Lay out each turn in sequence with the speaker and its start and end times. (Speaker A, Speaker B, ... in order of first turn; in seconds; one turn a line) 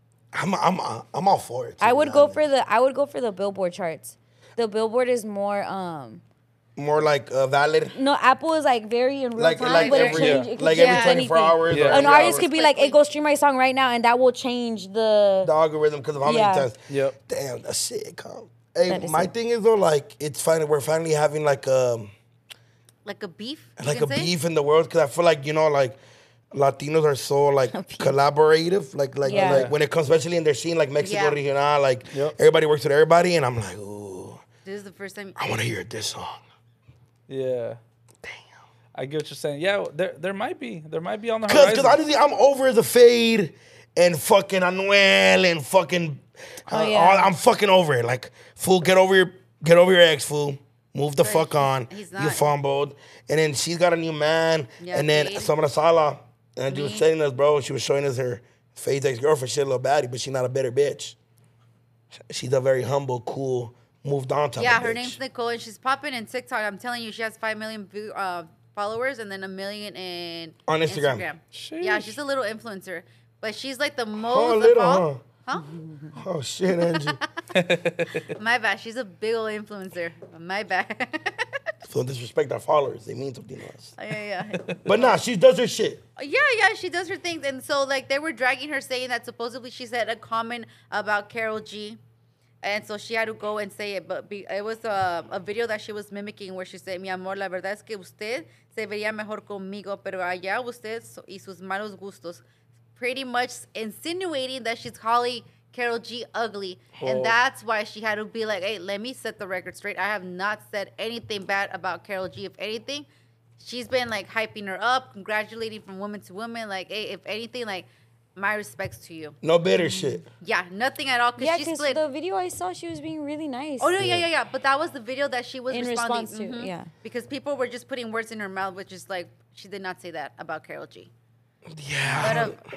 Speaker A: 0.3-2.4
Speaker B: 1.8-6.2
Speaker A: 6.8-7.9
Speaker B: 7.9-15.5
Speaker A: 9.4-12.5
Speaker C: 9.7-11.2
Speaker D: 10.1-10.5
Speaker D: 11.7-12.1
Speaker C: 12.1-13.0
Speaker A: 15.4-22.1
Speaker B: 16.2-16.7
Speaker D: 16.9-17.1
Speaker B: 18.9-19.3
Speaker C: 23.0-24.3
Speaker A: 23.8-26.0
Speaker A: 26.5-34.4
Speaker B: 27.7-28.1
Speaker B: 29.2-29.7
Speaker D: 29.3-29.7
Speaker C: 31.0-31.4
Speaker D: 32.1-32.4
Speaker C: 34.6-35.4
Speaker A: 35.4-36.4
Speaker D: 37.3-37.8
Speaker D: 38.9-42.0
Speaker A: 41.5-61.1
Speaker B: 46.7-47.3
Speaker C: 51.2-52.4
Speaker C: 54.8-55.5
Speaker C: 56.7-57.0
Speaker A: 62.3-65.2
Speaker C: 64.6-75.7
Speaker A: 70.7-71.2
Speaker D: 71.5-72.2
Speaker A: 74.2-75.2
Speaker B: 75.5-76.1
Speaker A: 76.2-77.2
Speaker C: 76.8-77.2
Speaker D: 77.5-78.3
Speaker C: 78.1-81.6
Speaker A: 81.8-83.9
Speaker C: 84.0-85.2
Speaker A: 84.8-86.0
Speaker C: 86.2-92.0
Speaker C: 92.6-102.4
Speaker C: 103.0-113.1
Speaker D: 107.0-107.3
Speaker C: 113.6-119.4
Speaker A: 119.4-120.2
Speaker B: 119.8-120.2
Speaker C: 120.4-122.0
Speaker B: 121.4-124.0
Speaker C: 123.8-131.1
Speaker A: 124.0-124.2
Speaker B: 125.7-126.9
Speaker A: 131.7-132.6
Speaker C: 132.2-132.6